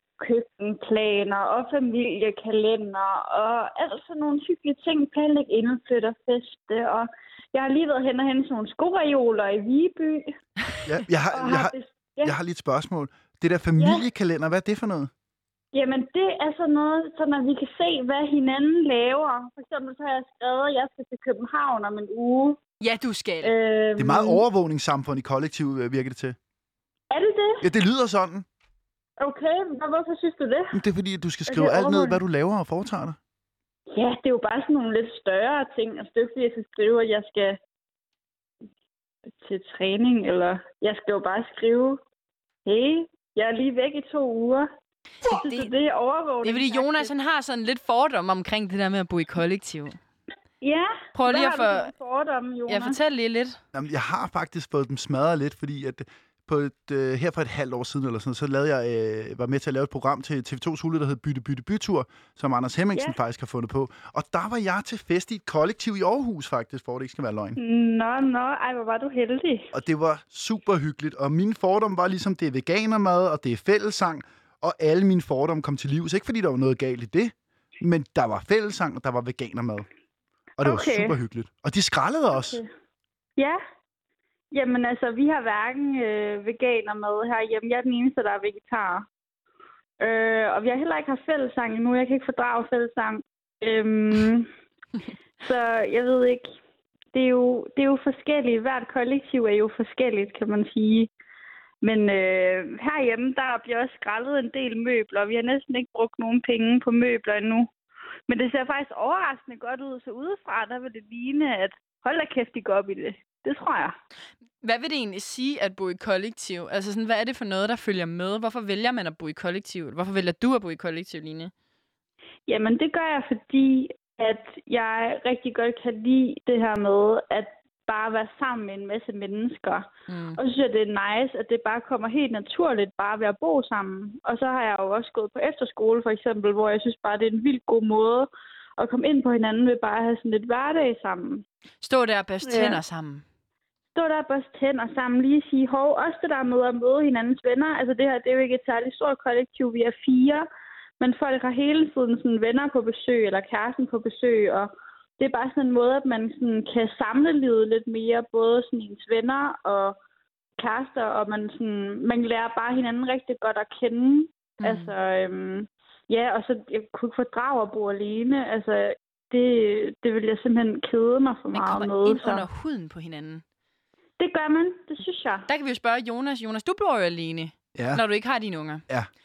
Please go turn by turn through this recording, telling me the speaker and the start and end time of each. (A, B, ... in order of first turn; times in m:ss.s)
0:00.2-0:10.3 A
0:10.8-0:15.1 B
0:11.3-0:12.4 A
0:13.8-0:14.0 A
0:15.7-0:22.6 A
0:22.8-0:23.6 C
0:23.4-0:24.4 A
0:24.0-0:26.4 B
0:27.1-0:27.6 A
0:27.6-0:28.5 B
0:29.2-0:30.8 A
0:30.7-0:33.2 B
0:31.5-0:32.2 A
0:33.9-0:37.6 A
0:39.4-0:42.0 A
0:42.6-0:44.7 A
0:45.3-0:45.7 C
0:45.3-0:47.1 A
0:46.4-0:50.0 C
0:50.6-0:53.0 A
0:51.2-0:51.9 C
0:52.7-0:53.6 C
0:53.7-1:07.6 B
1:07.6-1:09.7 A
1:09.7-1:19.9 B
1:20.6-1:22.6 B
1:20.6-1:21.2 A
1:22.3-1:22.7 A
1:24.5-1:29.1 A
1:30.0-1:34.5 A
1:35.4-1:36.6 A
1:37.1-1:41.1 A
1:41.8-1:47.7 A
1:48.3-1:53.9 A
1:54.6-2:01.5 C
2:02.5-2:21.4 A
2:10.1-2:10.4 C
2:21.8-2:23.2 C
2:22.4-2:22.8 A
2:24.0-2:30.5 A
2:31.0-2:40.0 A
2:40.6-2:52.4 A
2:44.6-2:44.9 C
2:51.5-2:53.4 C
2:54.2-2:55.5 A
2:55.5-2:58.8 C
2:57.8-2:58.0 B